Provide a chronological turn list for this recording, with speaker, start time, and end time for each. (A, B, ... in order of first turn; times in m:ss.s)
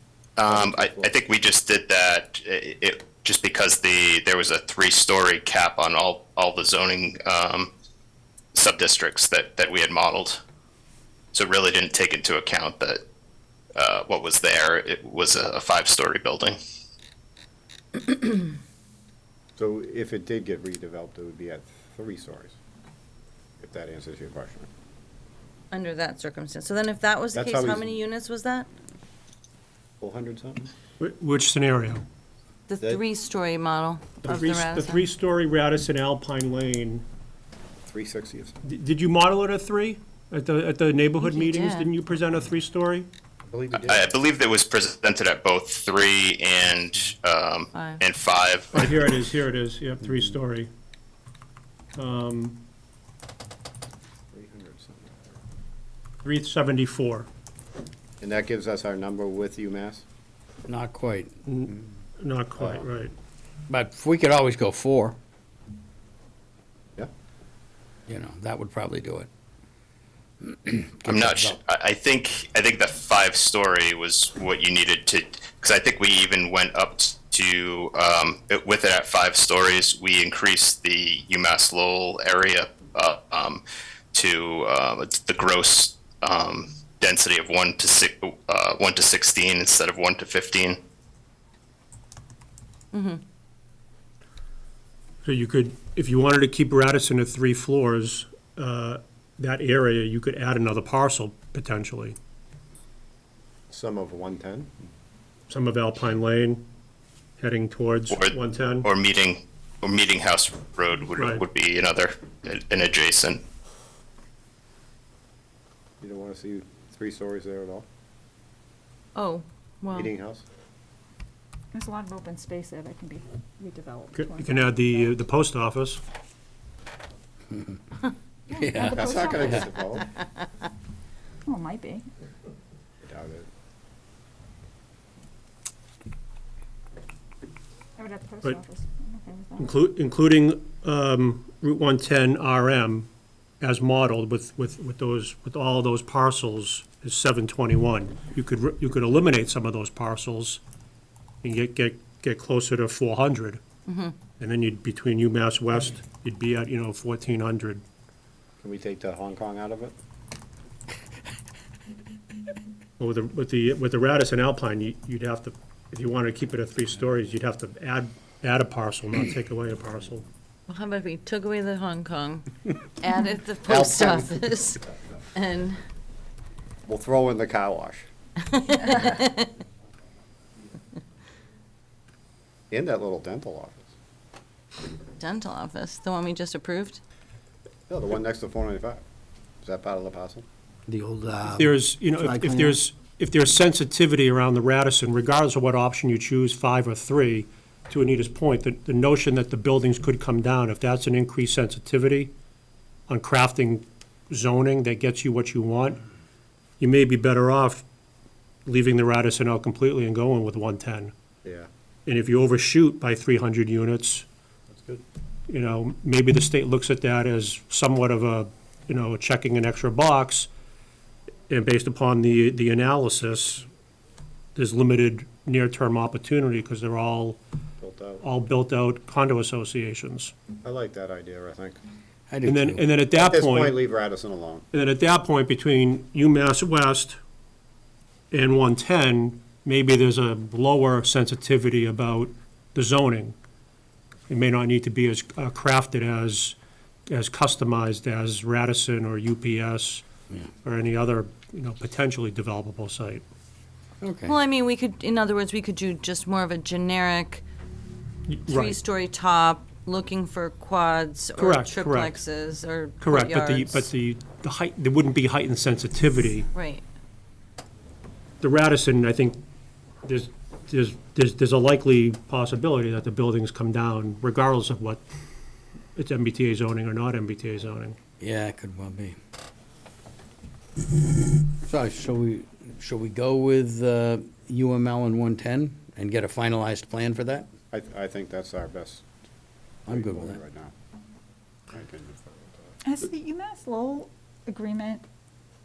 0:00.4-0:07.7 A
0:00.4-0:01.2 B
0:08.5-0:10.4 A
0:11.3-0:13.0 A
0:13.8-0:16.6 A
0:19.6-0:22.6 B
0:23.6-0:24.6 B
0:25.7-0:28.7 C
0:27.3-0:27.9 B
0:30.0-0:30.7 B
0:31.0-0:32.0 D
0:32.7-0:35.1 C
0:34.2-0:37.0 D
0:37.8-0:38.6 B
0:38.6-0:43.1 D
0:41.2-0:41.9 C
0:43.4-0:44.1 B
0:43.8-0:48.9 A
0:47.7-0:48.0 C
0:48.7-0:50.7 D
0:52.0-0:52.6 D
0:54.3-0:55.3 B
0:56.2-0:57.3 D
0:58.2-1:00.0 B
1:00.6-1:01.4 E
1:01.5-1:03.1 D
1:03.7-1:05.2 E
1:08.1-1:09.3 E
1:10.4-1:11.6 E
1:11.0-1:23.6 A
1:24.1-1:30.8 A
1:32.9-1:33.2 C
1:35.2-1:42.2 D
1:43.7-1:44.7 B
1:45.5-1:46.6 D
1:47.4-1:48.9 D
1:48.1-1:53.4 A
1:51.2-1:51.4 D
1:56.0-1:57.8 B
1:59.1-2:00.1 C
1:59.9-2:00.4 B
2:01.7-2:05.2 F
2:04.1-2:06.0 D
2:07.5-2:07.8 E
2:08.5-2:09.7 F
2:08.5-2:09.6 E
2:08.8-2:10.1 B
2:11.4-2:12.1 F
2:13.0-2:13.5 B
2:18.0-2:19.8 F
2:19.6-2:23.1 D
2:23.6-2:30.6 D
2:31.4-2:33.6 D
2:33.8-2:34.1 C
2:34.4-2:37.8 D
2:38.6-2:39.9 B
2:43.0-2:50.2 D
2:50.7-2:54.8 C
2:53.6-2:54.4 B
2:55.3-2:55.8 C
2:56.9-2:58.0 B
2:58.4-2:59.5 C
3:02.7-3:03.9 B
3:05.2-3:07.0 C
3:07.9-3:09.0 B
3:09.6-3:10.4 B
3:10.9-3:12.8 E
3:11.5-3:22.3 D
3:23.1-3:26.0 D
3:26.8-3:27.8 D
3:28.6-3:31.1 D
3:32.0-3:34.2 D
3:34.7-3:35.0 B
3:35.5-3:40.5 D
3:41.5-3:43.7 D
3:44.5-3:47.4 D
3:47.8-3:48.2 B
3:48.2-3:50.3 D
3:50.6-3:51.8 B
3:52.3-3:52.8 E
3:52.4-3:53.8 D
3:53.1-3:54.6 B
3:54.7-3:57.2 D
3:58.3-4:03.4 D
4:04.3-4:06.6 D
4:07.1-4:10.0 D
4:10.6-4:13.2 D
4:14.0-4:14.4 E
4:14.2-4:17.4 C
4:18.3-4:18.8 D
4:18.5-4:23.9 C
4:21.4-4:22.2 D
4:23.0-4:26.5 D
4:26.5-4:26.8 C
4:28.4-4:29.4 D
4:30.0-4:35.0 D
4:36.0-4:38.0 D
4:38.2-4:39.2 E
4:41.0-4:47.5 E
4:47.7-4:49.0 B
4:49.8-4:50.7 B
4:49.9-4:50.4 E
4:51.7-4:52.4 B
4:52.8-4:55.0 F